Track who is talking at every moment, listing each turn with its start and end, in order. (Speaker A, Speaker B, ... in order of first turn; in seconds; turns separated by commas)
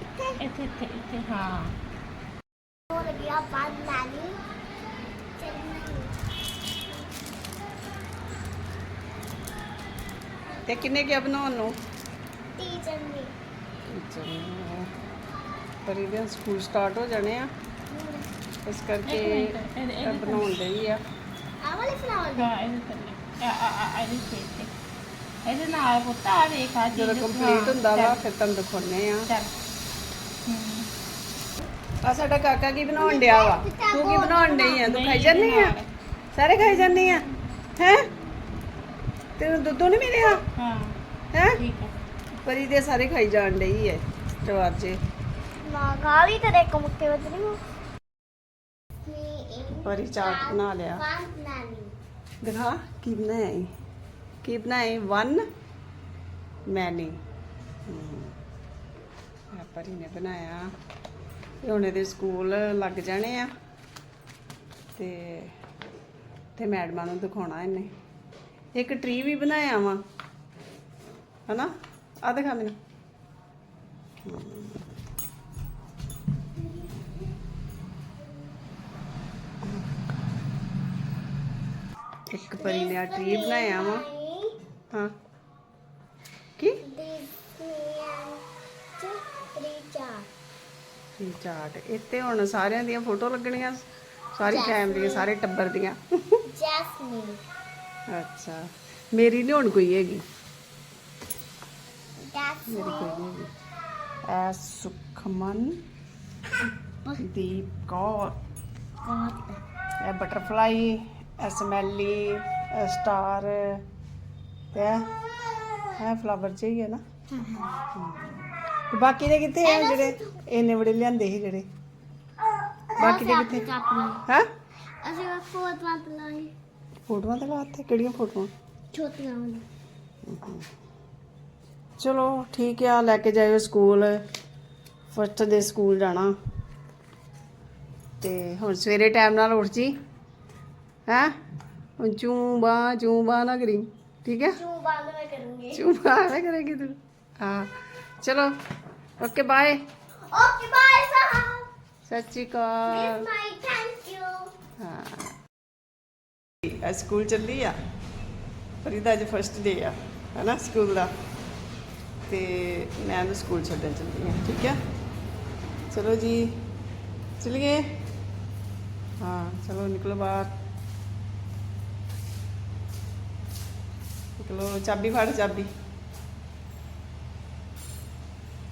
Speaker A: 0.4-1.8, Speaker B: 2.9-4.4, Speaker B: 5.4-6.1, Speaker B: 10.6-10.9, Speaker C: 10.7-11.7, Speaker B: 12.6-13.3, Speaker C: 13.9-14.9, Speaker C: 15.8-17.5, Speaker B: 17.9-18.3, Speaker C: 18.7-21.0, Speaker A: 19.1-20.6, Speaker B: 21.6-22.6, Speaker A: 22.4-24.7, Speaker A: 25.5-28.2, Speaker C: 26.9-29.3, Speaker A: 29.3-29.5, Speaker A: 30.5-30.9, Speaker C: 32.0-35.8, Speaker B: 33.0-34.8, Speaker A: 34.6-35.9, Speaker C: 36.3-37.2, Speaker A: 36.6-37.3, Speaker C: 37.8-38.0, Speaker C: 39.4-40.4, Speaker A: 40.6-41.0, Speaker C: 41.3-41.6, Speaker A: 41.5-41.9, Speaker C: 42.4-45.0, Speaker B: 45.7-47.6, Speaker B: 49.1-51.9, Speaker C: 49.8-51.0, Speaker C: 52.4-53.7, Speaker C: 54.4-55.4, Speaker C: 56.7-57.2, Speaker C: 57.9-58.4, Speaker C: 59.5-60.7, Speaker C: 61.6-63.5, Speaker C: 65.0-65.5, Speaker C: 66.6-67.9, Speaker C: 68.8-70.0, Speaker C: 72.2-72.8, Speaker C: 74.2-74.8, Speaker C: 82.3-84.1, Speaker B: 82.3-84.5, Speaker C: 86.6-86.8, Speaker B: 86.8-88.4, Speaker B: 89.0-90.3, Speaker C: 91.2-93.8, Speaker C: 94.3-96.0, Speaker B: 94.4-95.3, Speaker B: 96.5-97.4, Speaker C: 98.1-100.2, Speaker B: 102.2-103.2, Speaker C: 102.7-103.5, Speaker C: 104.3-105.8, Speaker C: 107.2-108.4, Speaker B: 109.0-109.6, Speaker C: 110.0-113.8, Speaker C: 114.7-115.1, Speaker C: 116.0-117.0, Speaker B: 117.4-117.7, Speaker C: 117.9-118.4, Speaker C: 118.9-121.7, Speaker B: 119.6-120.4, Speaker C: 123.0-123.7, Speaker B: 123.0-124.2, Speaker B: 125.0-126.5, Speaker C: 127.1-128.5, Speaker B: 128.9-129.7, Speaker C: 130.3-130.7, Speaker C: 132.0-134.2, Speaker C: 135.1-136.3, Speaker C: 138.2-139.9, Speaker C: 141.1-141.3, Speaker C: 142.0-144.6, Speaker B: 144.5-145.9, Speaker C: 145.8-148.5, Speaker C: 149.2-149.8, Speaker B: 150.3-151.7, Speaker C: 152.1-153.3, Speaker B: 152.9-154.5, Speaker C: 154.8-155.3, Speaker C: 156.7-157.8, Speaker C: 158.8-161.1, Speaker C: 162.3-164.8, Speaker C: 165.9-166.6, Speaker C: 167.4-167.8, Speaker C: 169.2-170.5, Speaker C: 174.4-175.7